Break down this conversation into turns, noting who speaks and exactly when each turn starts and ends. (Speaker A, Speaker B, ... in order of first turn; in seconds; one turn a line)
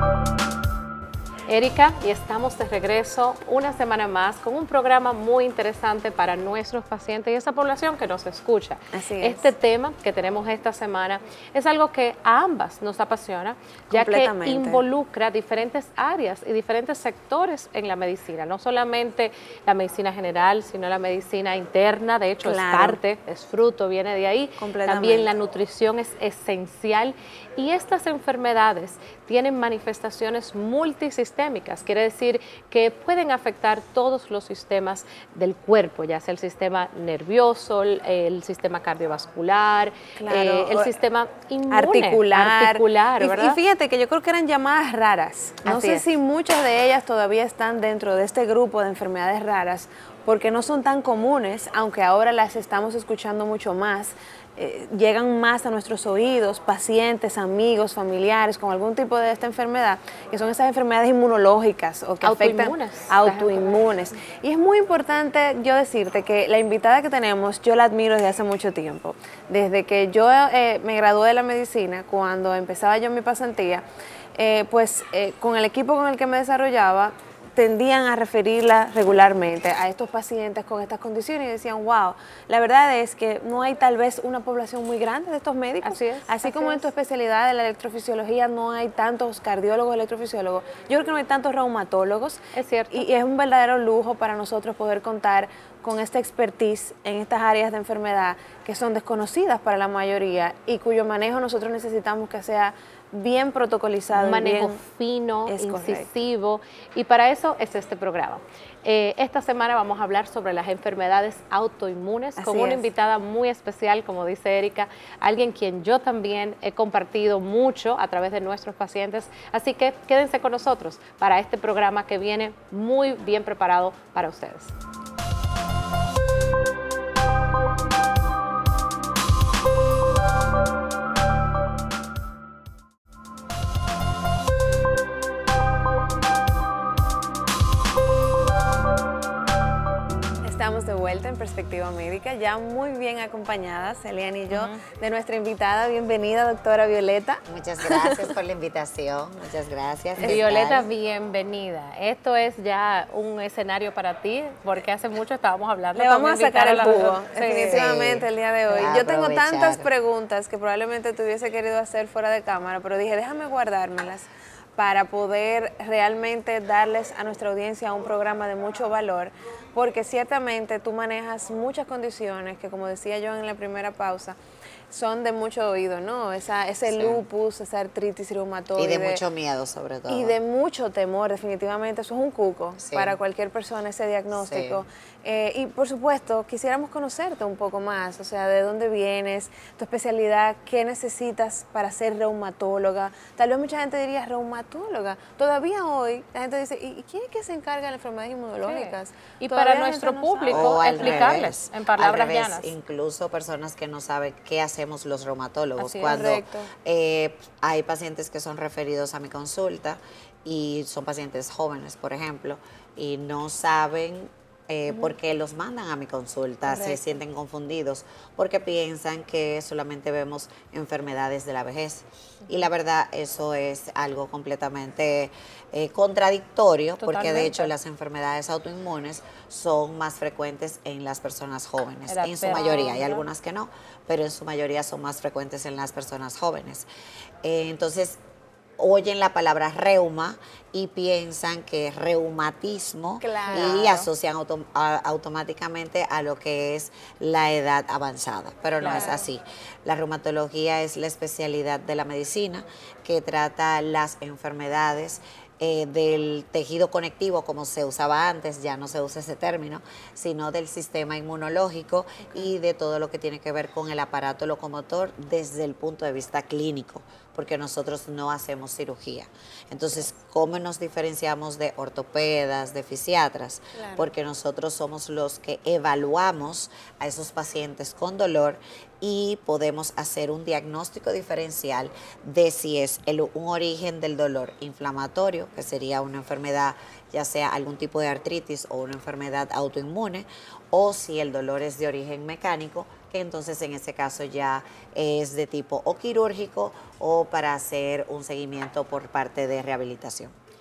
Speaker A: 1.5-43.6
Speaker B: 8.9-9.5
Speaker B: 13.9-14.8
Speaker B: 22.4-23.0
Speaker B: 24.6-25.3
Speaker B: 40.2-40.9
Speaker B: 41.7-104.8
Speaker A: 45.6-46.1
Speaker A: 62.2-63.9
Speaker A: 85.8-86.9
Speaker A: 92.5-93.1
Speaker A: 104.1-124.7
Speaker B: 105.5-106.1
Speaker B: 112.4-112.9
Speaker B: 140.4-148.3
Speaker A: 144.5-144.8
Speaker C: 147.5-150.9
Speaker A: 150.2-157.9
Speaker B: 155.9-174.4
Speaker C: 157.5-159.9
Speaker B: 174.9-179.2
Speaker C: 176.9-177.2
Speaker C: 178.8-180.4
Speaker B: 180.1-201.4
Speaker C: 182.8-183.2
Speaker C: 184.4-184.8
Speaker A: 198.7-202.7
Speaker C: 200.5-236.9
Speaker A: 205.8-206.2
Speaker B: 206.0-206.7
Speaker A: 227.0-227.7
Speaker A: 232.1-233.2
Speaker B: 232.6-232.9
Speaker C: 237.4-238.2
Speaker C: 238.8-300.4
Speaker B: 243.2-244.1
Speaker A: 243.6-243.9
Speaker A: 248.8-249.2
Speaker B: 248.8-249.3
Speaker B: 273.7-274.1